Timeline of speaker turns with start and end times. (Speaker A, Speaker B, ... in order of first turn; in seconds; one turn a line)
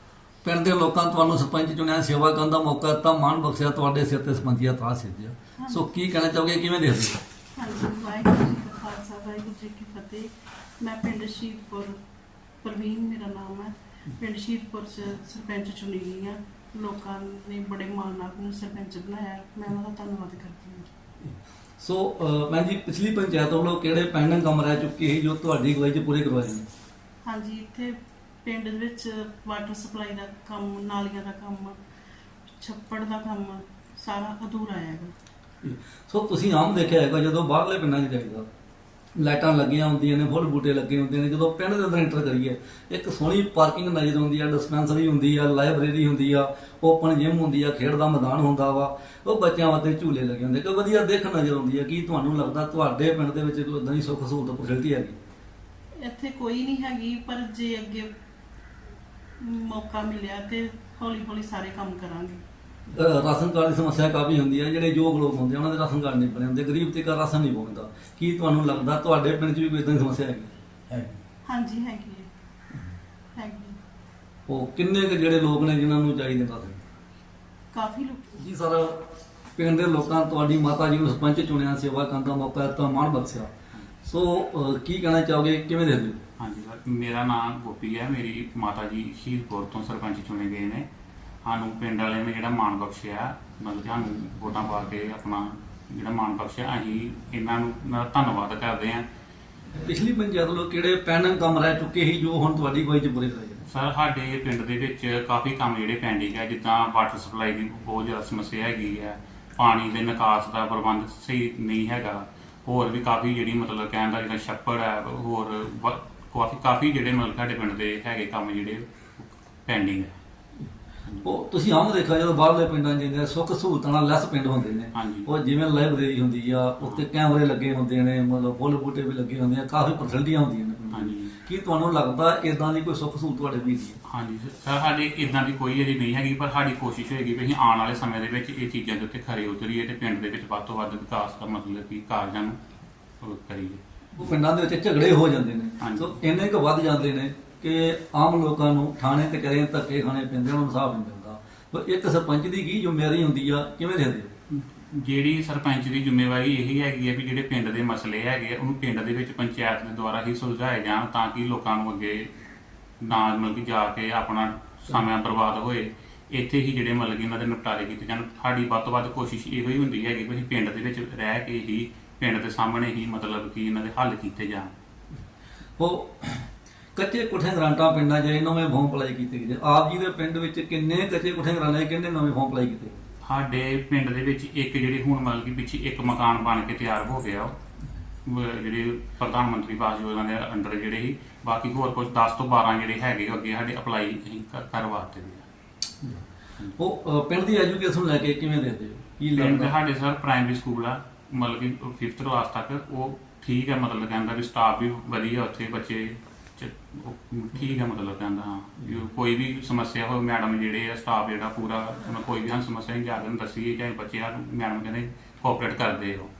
Speaker A: 0.4-7.2
Speaker B: 7.5-12.0
Speaker B: 12.6-20.9
Speaker A: 21.2-26.6
Speaker B: 27.2-31.8
Speaker B: 32.5-35.1
Speaker A: 35.6-38.5
Speaker A: 39.2-55.2
Speaker B: 56.0-58.1
Speaker B: 59.4-62.4
Speaker A: 62.9-71.1
Speaker B: 71.5-72.3
Speaker B: 73.3-73.8
Speaker A: 74.5-76.8
Speaker B: 77.7-78.4
Speaker A: 78.3-83.5
Speaker A: 84.0-86.2
Speaker C: 86.4-90.8
Speaker C: 91.4-99.0
Speaker A: 99.7-103.7
Speaker C: 103.7-120.1
Speaker A: 121.2-134.0
Speaker C: 124.9-125.3
Speaker C: 130.9-131.3
Speaker C: 134.1-142.6
Speaker C: 143.2-143.8
Speaker A: 144.2-154.3
Speaker C: 145.8-146.2
Speaker C: 154.5-162.3
Speaker C: 163.0-174.7
Speaker A: 175.8-182.9
Speaker C: 183.2-187.5
Speaker C: 188.2-195.4
Speaker A: 196.8-199.7
Speaker C: 199.3-216.3